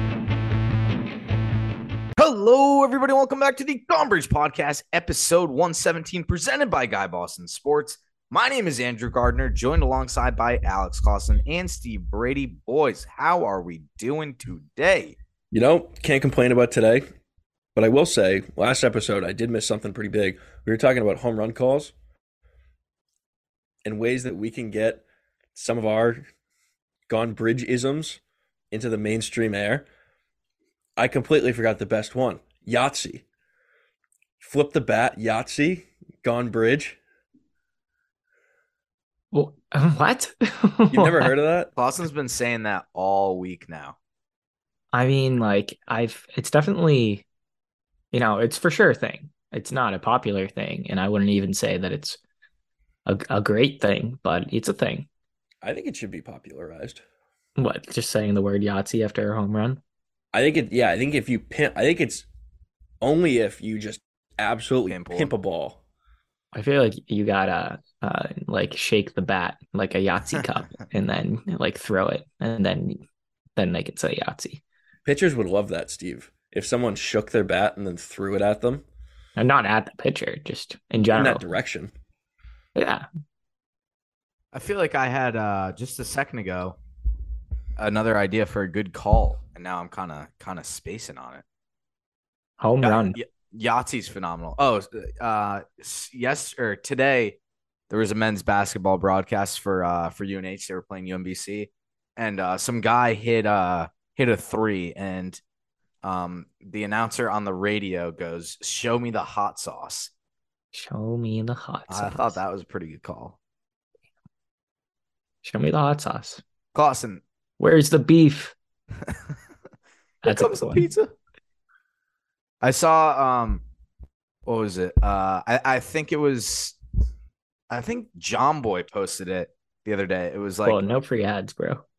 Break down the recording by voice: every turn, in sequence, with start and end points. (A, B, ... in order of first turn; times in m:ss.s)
0:02.2-0:15.2 A
0:15.5-0:17.1 B
0:17.8-0:21.9 B
0:23.8-0:25.0 B
0:25.6-0:26.2 B
0:27.1-0:28.2 B
0:28.7-0:29.8 B
0:31.0-0:33.2 B
0:34.4-0:37.0 B
0:39.3-0:41.3 C
0:40.9-0:41.7 B
0:41.8-0:44.0 A
0:44.9-0:47.2 C
0:48.1-0:52.2 C
0:53.1-0:55.1 C
0:55.6-0:57.0 B
0:57.6-0:59.8 C
1:00.3-1:02.3 B
1:03.0-1:05.8 B
1:04.9-1:05.3 A
1:06.5-1:13.0 C
1:13.6-1:14.6 C
1:15.1-1:18.8 B
1:19.4-1:21.4 C
1:21.1-1:21.9 B
1:22.8-1:23.0 C
1:24.5-1:26.8 A
1:27.8-1:31.4 A
1:32.6-1:33.2 C
1:32.8-1:37.4 A
1:37.9-1:45.4 A
1:46.0-1:50.1 A
1:50.7-1:52.4 C
1:51.9-1:53.4 A
1:55.4-1:56.4 C
1:56.8-1:57.2 A
1:57.6-1:58.6 C
1:59.0-1:59.3 A
2:00.2-2:00.9 C
2:00.2-2:01.1 A
2:02.6-2:03.6 A
2:04.4-2:06.8 A
2:07.7-2:10.8 A
2:10.6-2:11.8 C